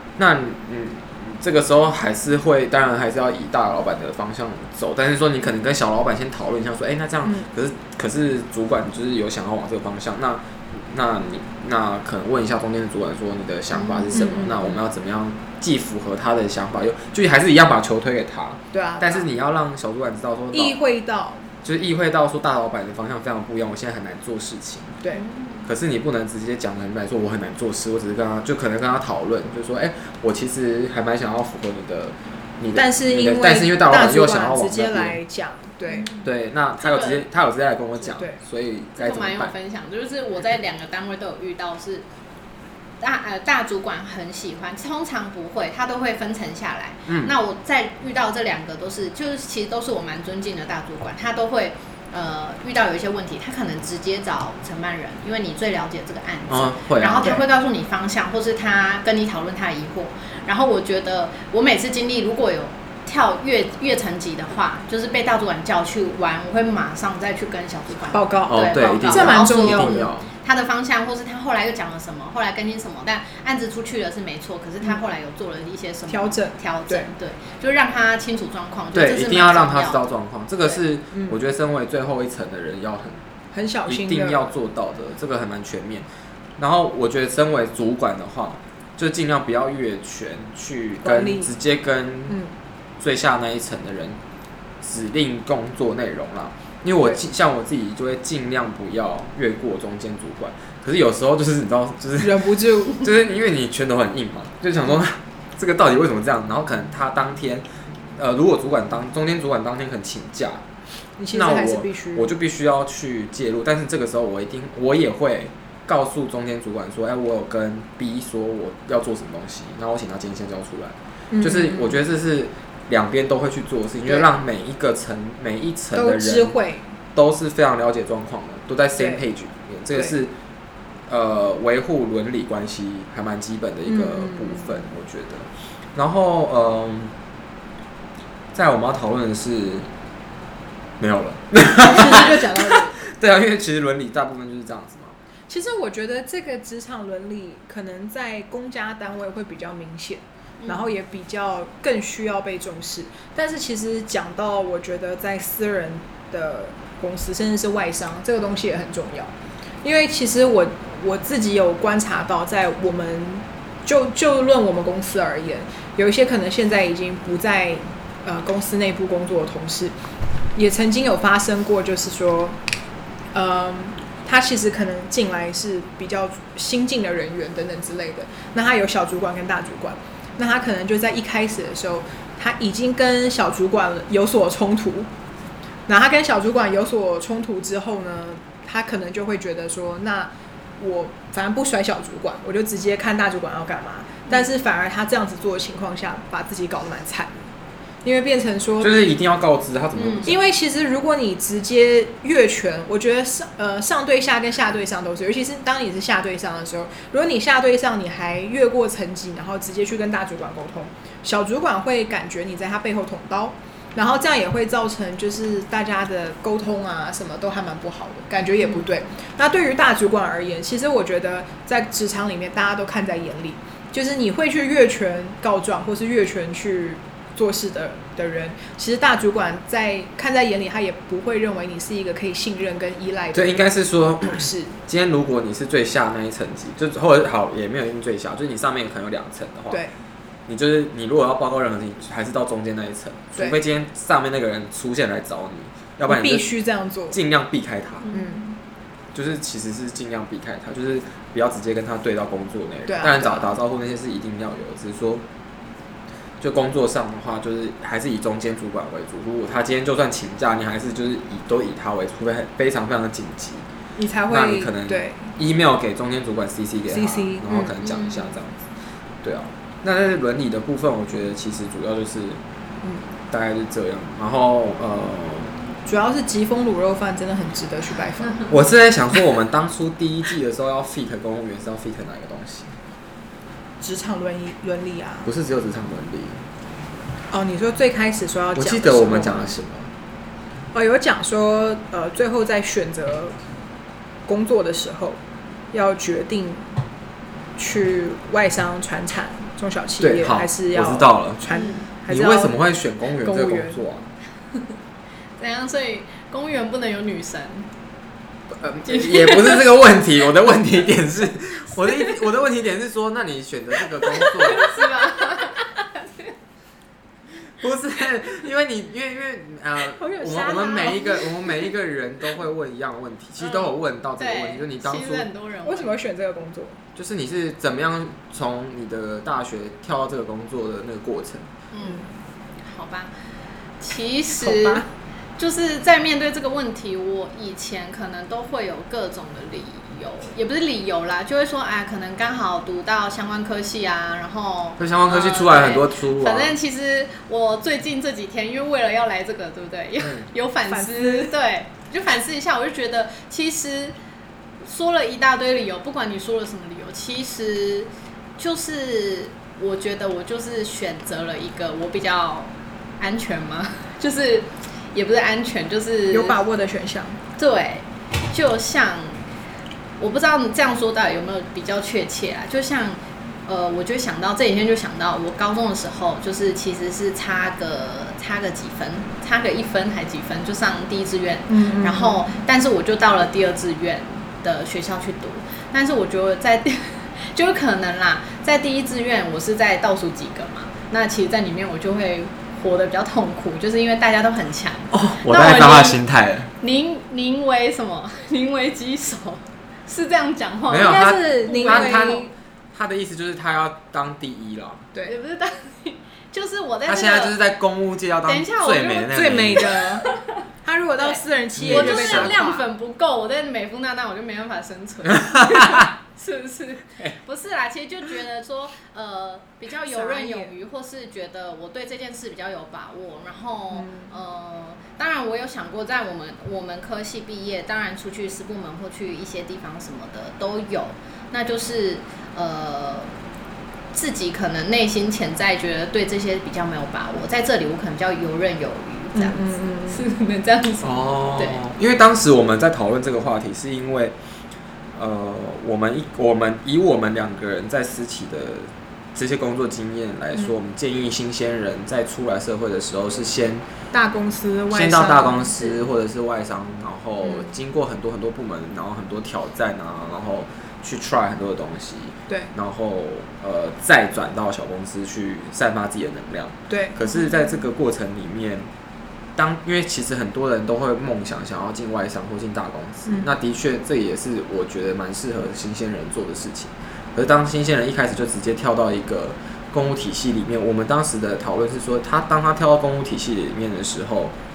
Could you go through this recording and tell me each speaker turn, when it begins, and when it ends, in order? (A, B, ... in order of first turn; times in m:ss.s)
0:00.2-0:20.8 A
0:13.7-0:14.3 B
0:14.1-0:14.7 C
0:18.7-0:19.3 C
0:20.5-0:21.5 C
0:21.6-0:25.0 A
0:25.1-0:25.7 B
0:25.6-0:35.2 A
0:32.7-0:36.1 C
0:35.9-0:36.3 B
0:36.2-0:39.5 A
0:36.8-0:37.2 B
0:38.1-0:38.4 C
0:39.0-0:42.0 B
0:43.0-1:20.0 B
0:47.1-0:47.3 A
0:56.5-0:57.4 A
1:08.1-1:10.1 C
1:08.5-1:10.3 A
1:16.1-1:17.1 C
1:18.9-1:23.2 A
1:21.1-1:21.4 C
1:23.5-1:24.5 C
1:23.8-1:32.4 A
1:31.0-1:31.5 C
1:32.3-1:32.5 C
1:33.0-1:34.2 A
1:34.8-1:50.6 A
1:42.2-1:43.1 C
1:51.2-1:52.3 C
1:51.3-2:06.5 A
2:01.3-2:02.0 C
2:04.0-2:04.3 C
2:05.9-2:06.9 C
2:07.1-2:10.3 A
2:09.0-2:09.2 C
2:11.1-2:17.1 A
2:13.8-2:14.8 C
2:18.5-2:19.9 A
2:21.0-2:25.2 A
2:21.7-2:23.0 C
2:25.5-2:39.3 C
2:30.6-2:30.9 B
2:39.8-2:49.9 C
2:50.5-2:52.6 C
2:53.3-3:05.1 C
3:05.9-3:17.5 C
3:18.0-3:19.0 C
3:18.8-3:20.4 A
3:20.0-3:20.3 B
3:20.2-3:53.6 C
3:38.6-3:38.9 B
3:53.3-3:59.8 A
3:54.2-3:54.8 C
3:59.7-4:00.0 C
4:00.5-4:06.5 A
4:06.0-4:07.2 C
4:07.1-4:08.0 A
4:08.0-4:08.5 B
4:08.1-4:08.6 C
4:09.1-4:15.2 A
4:12.9-4:13.5 C
4:16.4-4:23.6 A
4:24.0-4:25.3 C
4:24.3-4:28.7 A
4:26.9-4:27.8 C
4:27.8-4:28.4 B
4:29.2-4:32.4 A
4:33.3-4:35.6 A
4:35.8-4:38.5 C
4:38.5-4:42.7 A
4:43.8-4:45.3 C
4:45.2-4:46.4 A
4:47.3-4:49.5 C
4:48.5-4:49.9 A
4:50.7-4:53.3 C
4:54.2-4:55.2 C
4:55.7-4:56.7 C
4:57.6-5:02.6 C
5:00.0-5:01.4 A
5:01.5-5:01.8 B
5:02.1-5:04.0 A
5:03.2-5:03.8 C
5:05.4-5:07.7 B
5:08.6-5:14.8 A
5:08.8-5:09.6 B
5:14.0-5:16.3 B
5:17.6-5:25.3 A
5:19.9-5:21.7 C
5:23.4-5:26.0 B
5:25.6-5:26.8 C
5:27.0-5:31.5 A
5:31.7-5:33.1 B
5:31.8-5:32.1 C
5:33.8-5:34.8 B
5:34.4-5:34.9 C
5:35.4-5:54.0 B
5:44.8-5:46.5 A
5:50.0-5:50.3 A
5:50.6-5:51.3 C
5:54.6-6:06.4 B
6:06.1-6:07.2 C
6:07.4-6:09.3 B
6:10.0-6:36.0 B
6:21.5-6:22.3 C
6:34.9-6:36.5 A
6:36.6-6:42.2 B
6:40.7-6:44.9 A
6:40.7-6:42.3 C
6:45.0-6:47.4 B
6:46.9-6:49.8 A
6:48.2-6:50.4 B
6:49.1-6:50.1 C
6:50.6-6:52.7 C
6:51.0-7:13.1 B
6:51.6-6:52.4 A
6:55.2-6:55.9 A
6:59.8-7:00.5 C
7:03.7-7:04.1 C
7:13.9-7:21.6 B
7:19.1-7:20.0 C
7:20.8-7:24.2 A
7:24.9-7:33.6 A
7:33.9-7:35.7 C
7:34.7-7:48.7 A
7:37.2-7:37.6 C
7:46.7-7:47.6 C
7:49.4-8:04.3 A